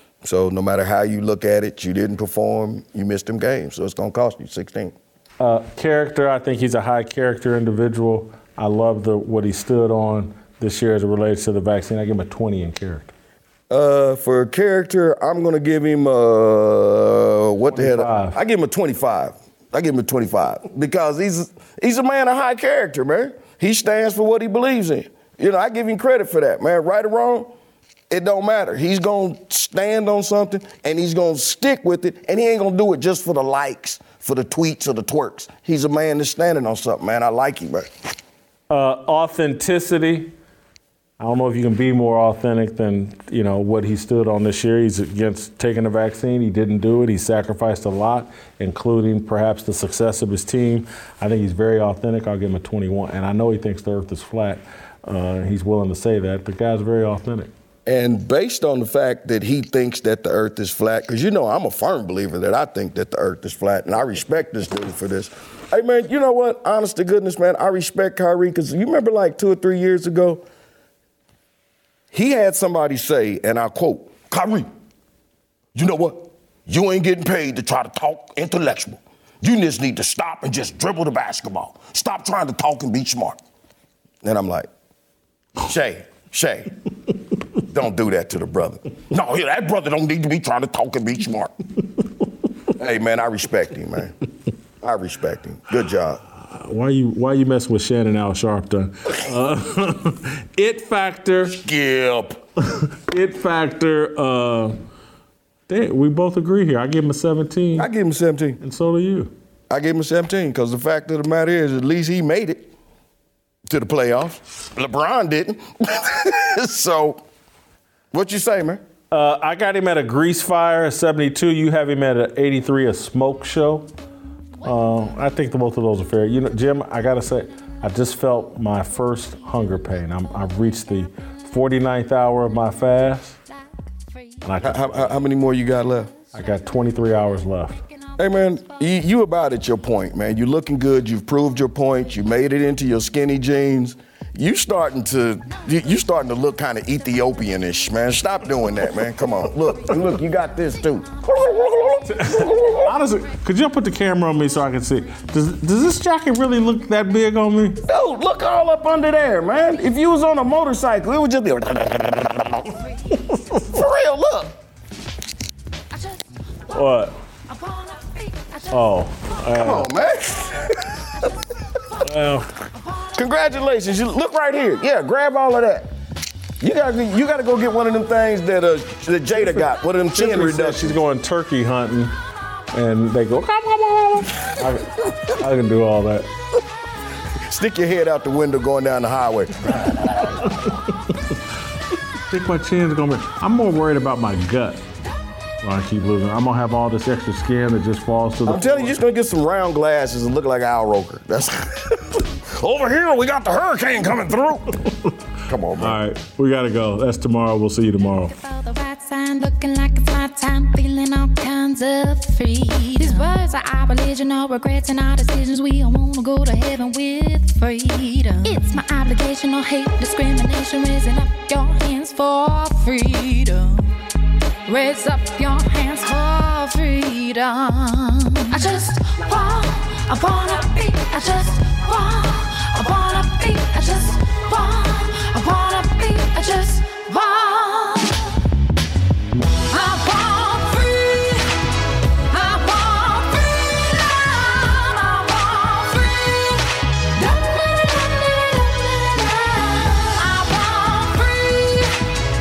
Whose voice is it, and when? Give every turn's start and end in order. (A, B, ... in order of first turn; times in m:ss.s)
0:00.2-0:05.0 A
0:05.4-0:13.1 B
0:13.7-0:27.5 A
0:17.7-0:18.4 B
0:28.1-0:37.9 A
0:38.7-0:40.3 B
0:41.2-0:57.5 B
0:57.9-1:10.4 A
1:12.1-1:14.7 A
1:15.8-1:23.4 A
1:24.2-1:24.7 A
1:25.6-1:26.7 A
1:27.7-1:31.5 A
1:32.8-1:34.1 A
1:34.8-1:36.2 A
1:36.4-1:41.6 B
1:41.6-1:42.4 A
1:42.7-1:44.8 B
1:45.7-1:47.9 B
1:47.8-1:48.6 A
1:48.6-1:49.3 B
1:49.7-1:52.7 A
1:53.7-1:57.2 A
1:58.1-1:58.8 A
1:59.1-2:03.9 B
2:04.6-2:13.4 B
2:14.4-2:15.2 B
2:14.6-2:16.1 A
2:16.3-2:17.8 B
2:18.2-2:33.0 A
2:32.1-2:37.8 B
2:37.8-2:42.8 A
2:43.1-2:43.8 B
2:43.7-2:44.6 A
2:46.7-2:47.2 B
2:47.6-2:48.5 C
2:48.7-2:49.9 B
2:49.6-2:51.4 A
2:52.0-2:52.6 B
2:53.1-2:55.9 A
2:56.6-3:01.0 A
2:59.4-3:02.2 B
3:02.7-3:06.3 B
3:07.4-3:10.6 A
3:09.7-3:11.5 B
3:12.3-3:14.8 B
3:15.6-3:19.0 B
3:18.5-3:22.0 A
3:22.6-3:28.4 B
3:22.8-3:24.6 A
3:25.5-3:26.0 A
3:28.2-3:44.0 C
3:44.7-3:58.2 C
3:59.7-4:01.5 C
4:02.3-4:12.0 C